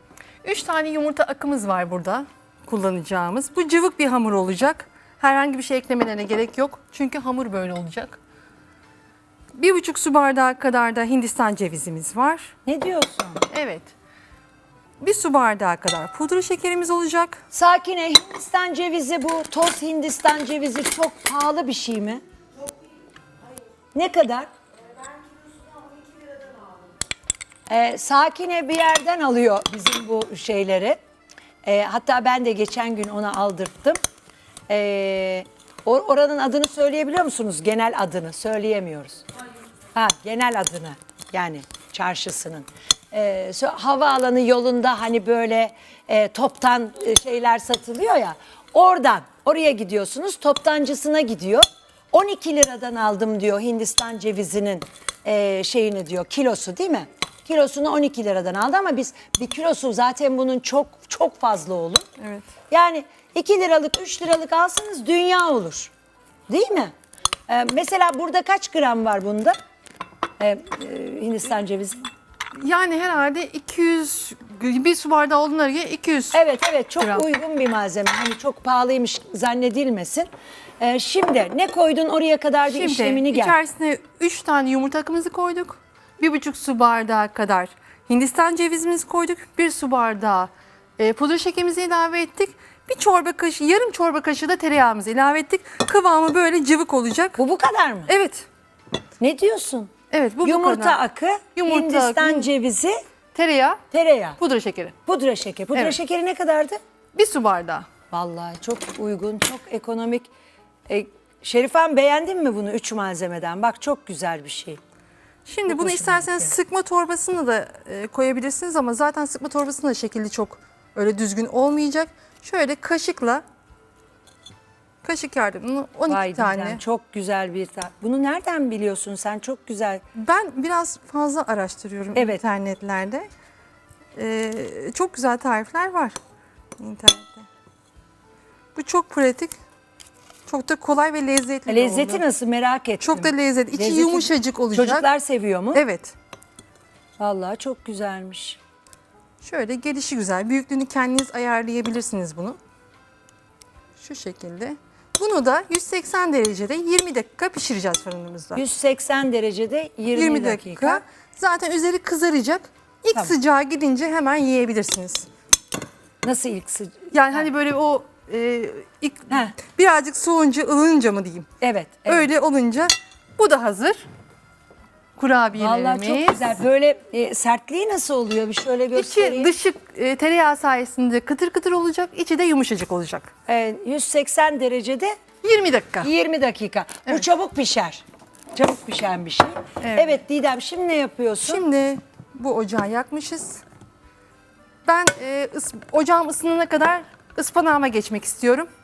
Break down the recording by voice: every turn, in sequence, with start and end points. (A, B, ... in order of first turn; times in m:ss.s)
0:00.4-0:08.2 A
0:09.6-0:12.5 A
0:12.7-0:13.4 B
0:13.5-0:13.9 A
0:15.0-0:17.4 A
0:17.5-0:22.2 B
0:23.9-0:24.5 B
0:27.7-0:31.0 B
0:31.6-0:34.0 B
0:34.7-0:39.2 B
0:40.0-1:02.1 B
1:02.2-1:02.5 A
1:02.7-1:05.9 B
1:06.5-1:06.9 B
1:07.5-1:09.6 B
1:10.4-1:12.1 B
1:12.5-1:16.4 A
1:16.3-1:20.3 B
1:17.0-1:17.3 A
1:20.8-1:23.6 B
1:22.6-1:37.4 A
1:37.4-1:38.1 B
1:38.1-1:38.5 A
1:39.2-1:39.9 B
1:40.1-1:41.0 A
1:40.4-1:43.0 B
1:41.6-1:42.5 A
1:43.3-1:43.8 A
1:43.9-1:44.4 B
1:44.4-1:45.0 A
1:45.1-1:46.8 B
1:47.2-1:47.9 A
1:48.1-1:50.3 B
1:50.9-1:54.8 B
1:55.4-2:03.4 A
1:55.7-1:56.5 B
2:05.0-2:06.8 A
2:06.1-2:10.0 B
2:10.2-2:13.3 A
2:12.2-2:12.4 B
2:14.2-2:16.2 A
2:16.8-2:17.5 A
2:18.8-2:19.6 A
2:20.5-2:22.2 A
2:21.7-2:25.8 B
2:23.0-2:25.1 A
2:25.7-2:26.2 A
2:27.2-2:28.6 B
2:29.4-2:32.6 A
2:34.0-2:38.6 A
2:38.6-2:41.0 B
2:40.1-2:45.3 A
2:46.2-2:47.5 B
2:47.1-2:51.5 A
2:49.3-2:49.6 B
2:51.6-2:52.3 B
2:52.1-2:54.1 A
2:55.2-2:56.6 A
2:55.5-2:59.6 B
2:59.0-3:03.3 A
3:03.5-3:05.2 B
3:05.4-3:06.1 A
3:06.0-3:08.0 B
3:08.6-3:11.6 B
3:09.8-3:10.2 A
3:11.4-3:13.6 A
3:14.8-3:18.7 A